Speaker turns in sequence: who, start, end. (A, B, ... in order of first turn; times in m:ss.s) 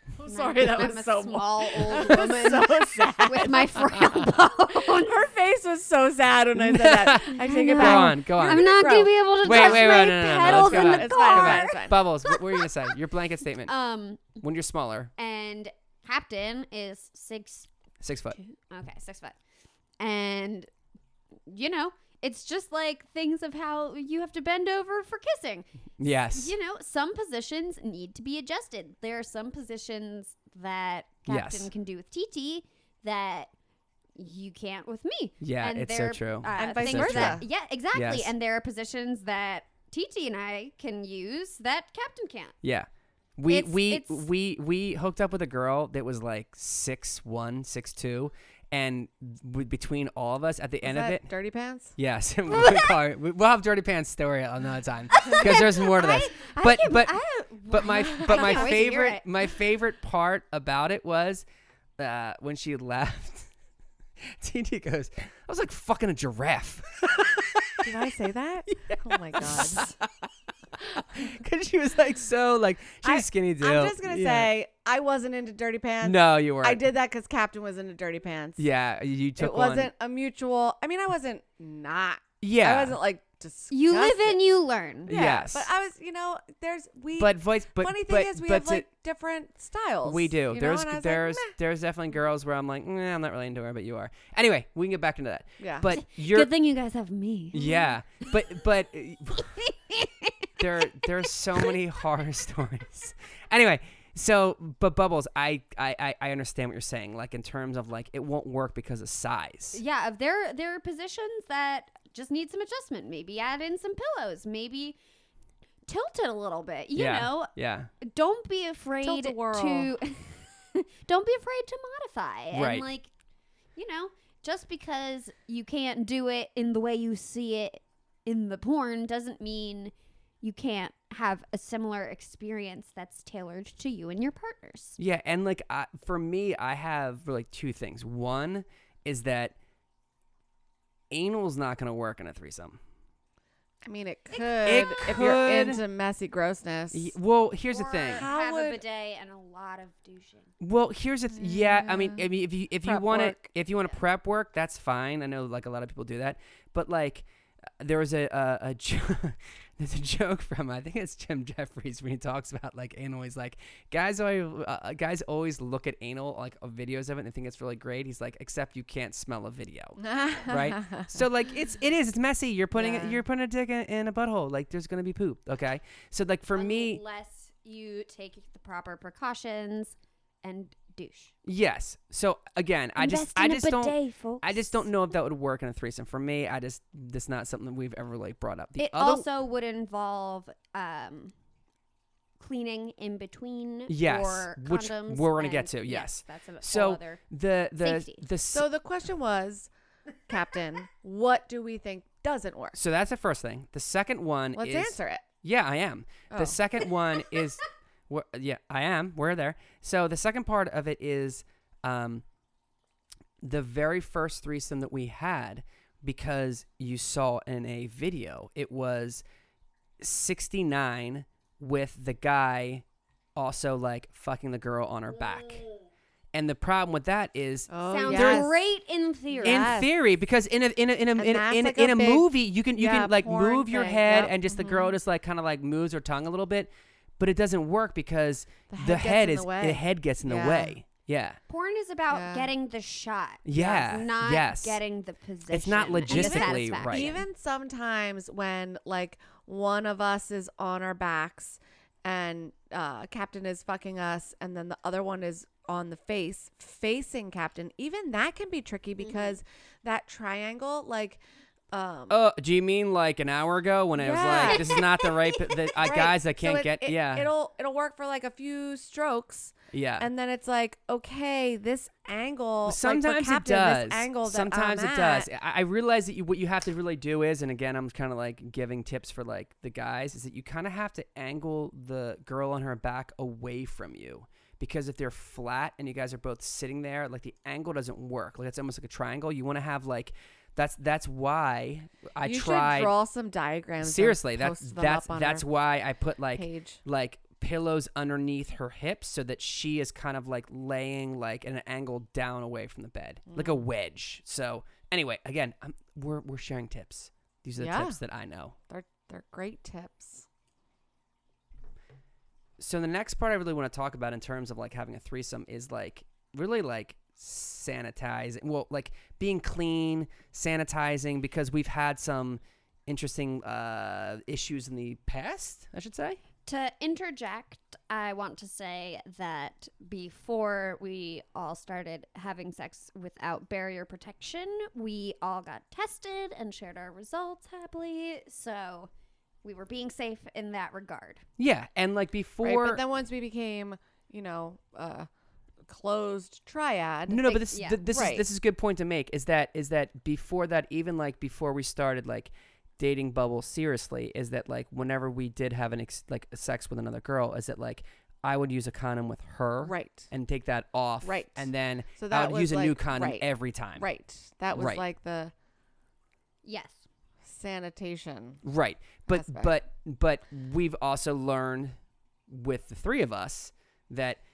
0:00.2-0:12.0 A
0:00.2-0:05.2 B
0:06.6-0:08.7 C
0:07.4-0:12.9 B
0:09.4-0:13.7 C
0:13.7-0:14.4 B
0:14.4-0:15.1 C
0:15.2-0:17.7 B
0:18.0-0:18.4 C
0:18.3-0:19.4 B
0:20.0-0:20.7 B
0:21.5-0:33.5 B
0:26.0-0:26.5 C
0:31.3-0:31.7 C
0:34.2-0:42.6 B
0:35.4-0:38.3 C
0:36.6-0:37.4 A
0:42.6-0:51.3 C
0:43.5-0:44.3 B
0:50.8-0:52.0 A
0:52.0-0:57.2 C
0:52.5-0:53.0 B
0:55.1-0:59.5 B
0:55.2-0:55.6 A
0:57.7-1:01.4 C
0:58.2-0:58.8 A
1:02.0-1:03.5 C
1:04.3-1:07.8 C
1:07.8-1:09.9 A
1:08.7-1:10.1 C
1:10.7-1:14.5 C
1:13.0-1:18.6 A
1:16.0-1:16.8 C
1:18.6-1:19.9 C
1:19.4-1:24.4 A
1:22.4-1:23.0 C
1:23.7-1:25.1 B
1:25.1-1:25.7 C
1:25.1-1:31.6 A
1:27.2-1:28.9 C
1:30.0-1:36.5 C
1:35.6-1:35.9 A
1:35.9-1:37.6 B
1:37.5-1:39.6 C
1:37.5-1:37.9 A
1:39.4-1:41.7 B
1:40.6-1:49.8 C
1:49.7-1:55.0 B
1:55.9-2:03.1 B
1:57.0-1:57.9 C
1:59.0-1:59.9 A
2:02.5-2:02.9 C
2:03.8-2:15.0 B
2:15.0-2:19.6 C
2:21.1-2:22.8 C
2:23.8-2:27.1 A
2:24.6-2:25.8 C
2:26.9-2:28.3 C
2:27.7-2:30.5 B
2:28.1-2:28.8 A
2:30.6-2:37.3 C
2:31.3-2:32.2 A
2:32.8-2:33.5 A
2:37.8-2:57.0 C
2:50.0-2:51.2 A
2:52.8-2:53.2 A
2:56.6-3:01.3 B
3:01.4-3:09.3 C
3:03.0-3:04.8 B
3:08.8-3:11.3 B
3:12.4-3:17.2 B
3:13.9-3:18.7 C
3:17.8-3:18.2 B
3:18.5-3:19.7 A
3:20.3-3:22.8 A
3:22.7-3:32.2 C
3:24.6-3:25.3 A
3:26.3-3:26.6 A
3:33.4-3:39.2 C
3:40.0-3:42.8 C
3:43.4-3:45.6 C
3:46.3-3:48.4 C
3:47.7-3:48.6 A
3:47.9-3:49.8 B
3:49.3-3:49.9 A
3:49.4-4:01.4 C
3:51.2-3:55.0 A
3:58.7-4:00.8 A
4:01.5-4:07.1 B
4:02.1-4:02.5 A
4:03.4-4:04.8 C
4:03.6-4:03.9 A
4:05.5-4:07.2 C
4:05.9-4:22.2 A
4:19.0-4:19.3 B
4:22.1-4:27.3 C
4:24.0-4:24.9 A
4:25.8-4:35.3 A
4:29.7-4:30.1 C
4:32.7-4:52.9 C
4:52.2-4:55.5 A
4:53.8-5:08.6 C
4:56.3-4:56.8 A
5:03.3-5:03.7 A
5:07.6-5:08.0 A
5:08.7-5:10.3 A
5:12.6-5:26.2 C
5:26.5-5:38.9 B
5:39.4-5:41.2 B
5:41.4-5:42.8 C
5:42.4-5:45.1 A
5:45.7-5:47.4 A
5:47.1-6:03.9 C
5:47.3-5:47.8 B
5:47.9-5:48.2 A
5:59.6-6:00.1 A
6:01.0-6:05.3 A
6:04.5-6:04.8 C
6:06.4-6:06.8 B
6:07.2-6:08.4 A
6:08.4-6:11.8 C
6:09.1-6:09.5 A
6:12.3-6:14.2 C